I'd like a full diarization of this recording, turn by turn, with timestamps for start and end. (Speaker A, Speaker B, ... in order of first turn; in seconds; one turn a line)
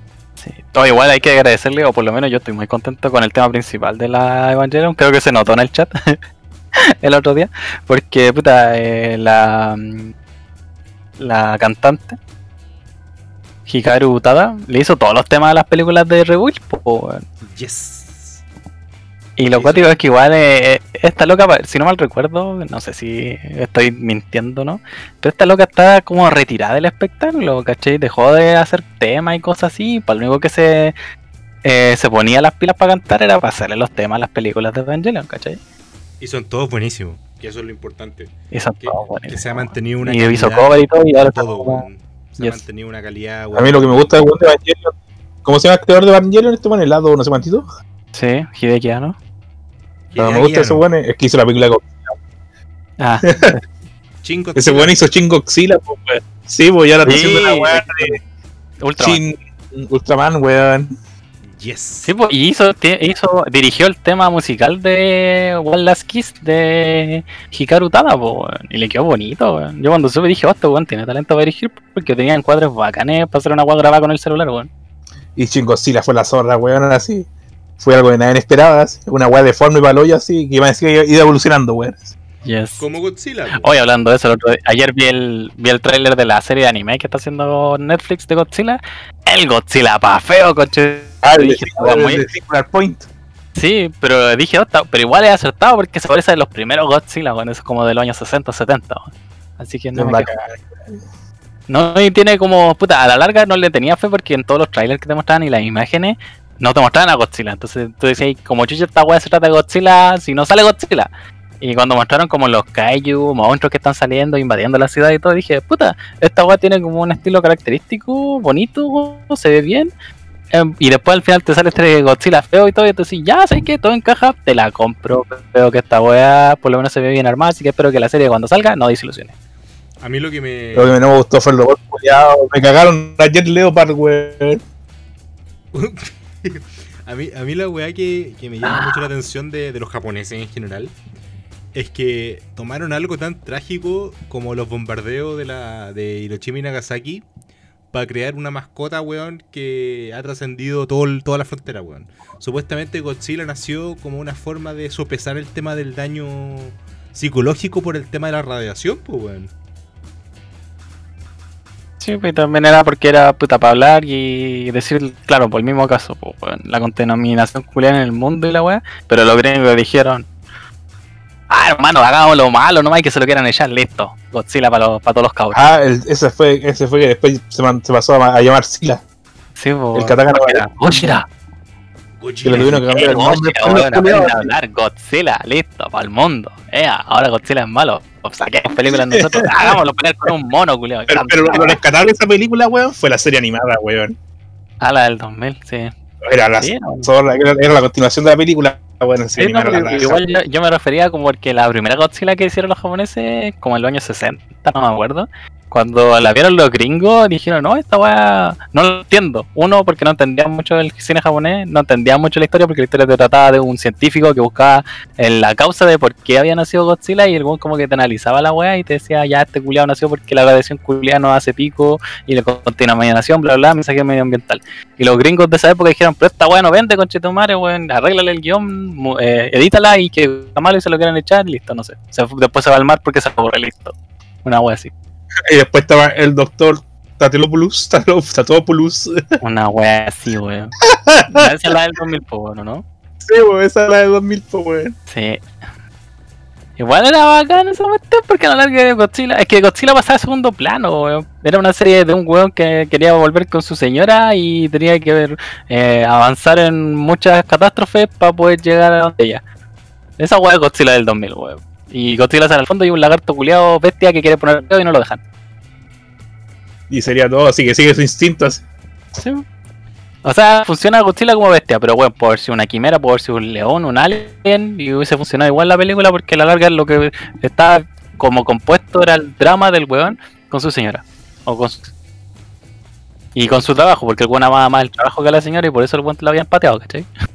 Speaker A: 0.4-6.2
Speaker A: 6.7-10.1
Speaker A: 11.2-12.2
Speaker A: 13.7-17.2
Speaker B: 17.4-18.4
Speaker A: 19.4-30.9
Speaker B: 19.5-19.9
Speaker A: 31.6-35.6
Speaker B: 36.2-44.2
Speaker A: 38.5-41.9
Speaker C: 43.5-47.7
Speaker A: 48.1-49.2
Speaker B: 50.1-50.8
Speaker C: 50.2-52.2
Speaker A: 53.0-53.5
Speaker C: 53.3-53.6
Speaker B: 54.2-55.0
Speaker C: 54.6-58.2
Speaker A: 57.0-58.2
Speaker A: 58.8-59.2
Speaker C: 59.0-60.9
Speaker B: 61.5-62.1
Speaker A: 62.1-74.7
Speaker C: 75.4-77.3
Speaker C: 77.8-82.1
Speaker A: 82.5-82.8
Speaker B: 82.8-83.7
Speaker A: 83.6-92.2
Speaker C: 91.2-93.1
Speaker A: 93.6-100.3
Speaker C: 100.0-100.6
Speaker A: 101.7-111.1
Speaker A: 111.6-119.9
Speaker A: 120.5-129.3
Speaker B: 130.0-131.0
Speaker C: 130.8-134.6
Speaker B: 135.7-141.0
Speaker A: 138.6-139.1
Speaker B: 141.7-147.3
Speaker B: 147.9-159.5
Speaker A: 162.0-170.3
Speaker A: 171.5-175.7
Speaker C: 175.5-179.0
Speaker A: 179.6-181.2
Speaker C: 179.9-181.2
Speaker B: 182.2-182.9
Speaker C: 182.4-184.5
Speaker A: 182.5-191.8
Speaker C: 188.9-189.8
Speaker C: 191.1-194.2
Speaker A: 194.8-195.9
Speaker C: 196.2-200.3
Speaker A: 196.6-197.1
Speaker A: 199.4-234.9
Speaker C: 235.5-239.2
Speaker A: 239.4-240.8
Speaker C: 240.8-241.8
Speaker A: 241.3-242.8
Speaker C: 243.2-244.9
Speaker A: 245.1-245.4
Speaker A: 246.8-259.4
Speaker A: 260.2-265.2
Speaker C: 266.9-268.6
Speaker A: 269.2-269.4
Speaker A: 270.2-281.9
Speaker A: 283.4-287.1